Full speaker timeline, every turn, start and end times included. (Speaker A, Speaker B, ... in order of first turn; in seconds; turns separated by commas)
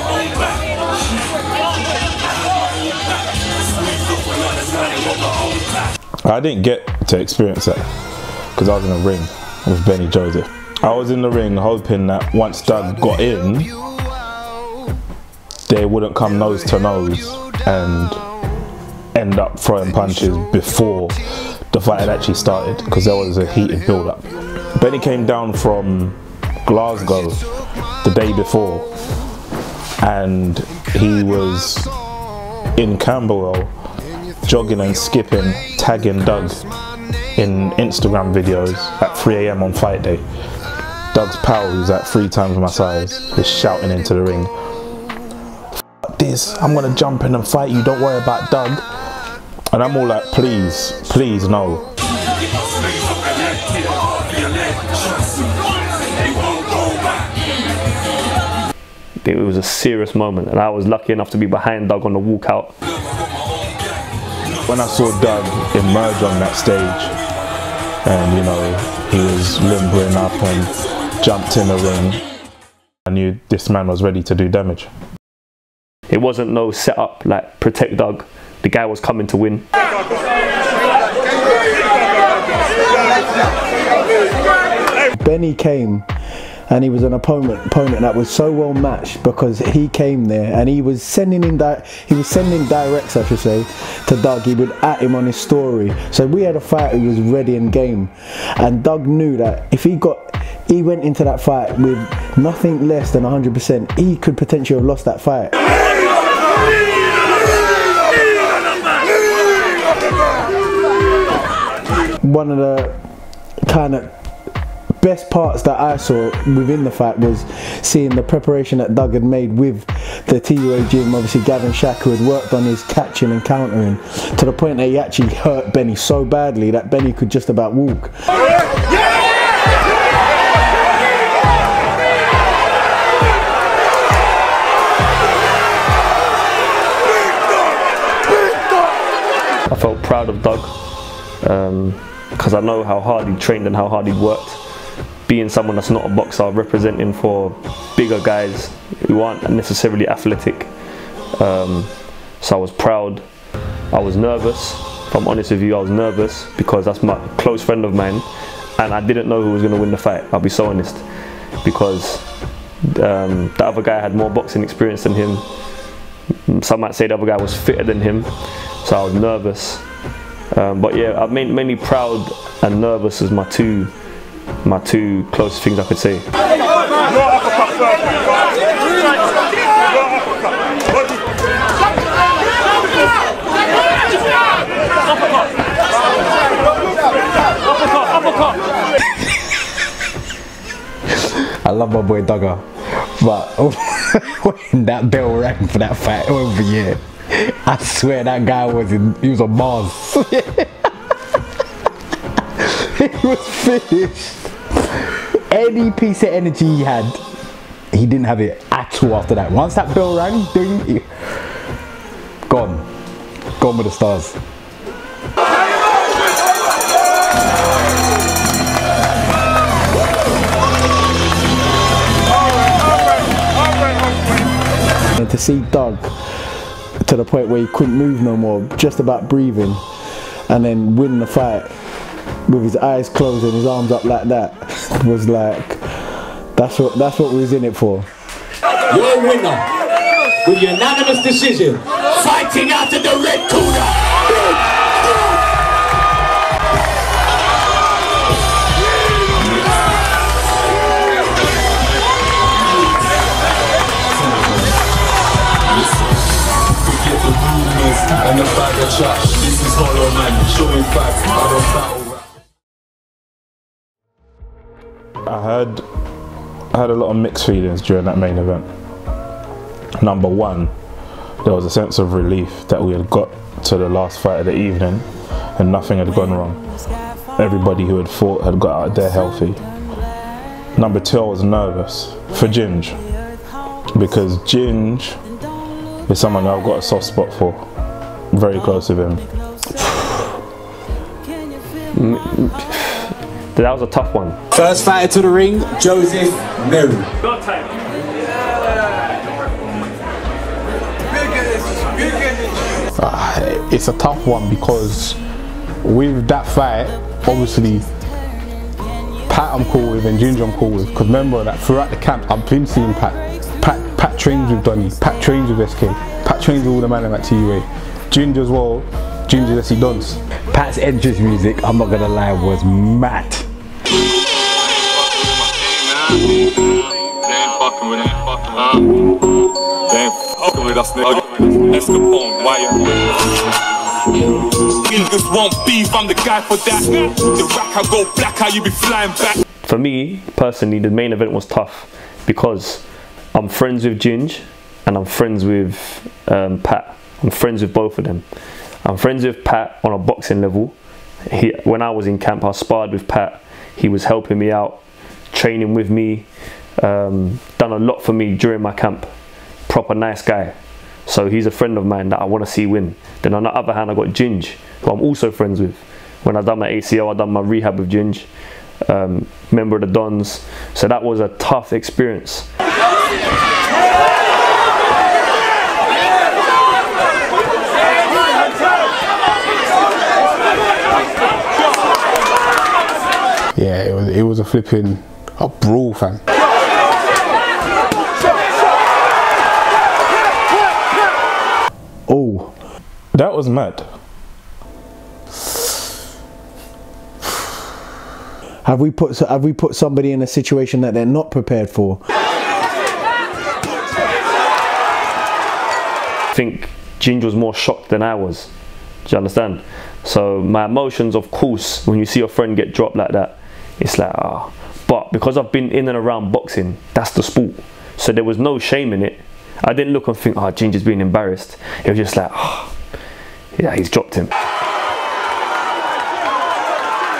Speaker A: 6.2-7.9, Speaker A: 8.6-13.7, Speaker A: 15.7-18.2, Speaker A: 19.1-21.2, Speaker A: 21.7-27.4, Speaker A: 28.0-28.9, Speaker A: 30.0-31.9, Speaker A: 32.8-33.7, Speaker A: 34.5-36.6, Speaker A: 37.4-40.2, Speaker A: 41.1-44.5, Speaker A: 46.1-48.8, Speaker A: 49.7-51.9, Speaker B: 59.2-62.7, Speaker A: 64.7-67.1, Speaker A: 68.0-72.2, Speaker A: 73.1-74.9, Speaker B: 76.1-79.7, Speaker C: 85.2-86.1, Speaker C: 86.7-105.5, Speaker C: 112.2-112.9, Speaker C: 113.7-114.1, Speaker C: 115.0-128.1, Speaker B: 139.7-140.7, Speaker B: 141.4-144.6, Speaker B: 145.3-150.7, Speaker B: 151.4-153.2, Speaker B: 153.9-158.3, Speaker B: 158.8-161.0, Speaker B: 161.6-162.2, Speaker B: 162.9-165.4, Speaker B: 166.5-168.3, Speaker B: 168.8-169.8, Speaker B: 170.5-173.9, Speaker B: 174.6-176.3, Speaker D: 191.4-200.7, Speaker D: 202.6-207.2, Speaker D: 207.9-211.1, Speaker D: 212.5-212.8, Speaker D: 213.6-214.4, Speaker C: 225.1-226.1, Speaker C: 227.0-229.8, Speaker C: 230.5-231.7, Speaker C: 232.5-238.1, Speaker E: 238.9-239.6, Speaker E: 240.4-243.2, Speaker A: 265.2-265.8, Speaker A: 266.7-268.7, Speaker A: 270.0-270.7, Speaker A: 271.4-276.6, Speaker A: 277.4-279.6, Speaker A: 280.8-283.0, Speaker A: 283.9-285.2, Speaker A: 286.1-287.6, Speaker A: 288.3-289.2, Speaker B: 291.9-294.4, Speaker F: 303.0-305.2, Speaker F: 305.8-307.9, Speaker F: 309.3-320.2, Speaker D: 320.5-323.5, Speaker G: 330.9-331.2, Speaker G: 331.8-332.6, Speaker G: 334.9-336.8, Speaker G: 337.5-339.2, Speaker B: 339.6-348.2, Speaker B: 348.8-350.8, Speaker B: 351.3-354.8, Speaker B: 355.3-359.1, Speaker B: 359.7-360.5, Speaker B: 361.1-368.3, Speaker B: 368.8-372.5, Speaker F: 383.6-386.2, Speaker C: 392.1-392.5, Speaker A: 393.1-393.9, Speaker C: 398.6-402.0, Speaker B: 406.3-408.5, Speaker B: 409.0-422.7, Speaker B: 423.5-424.3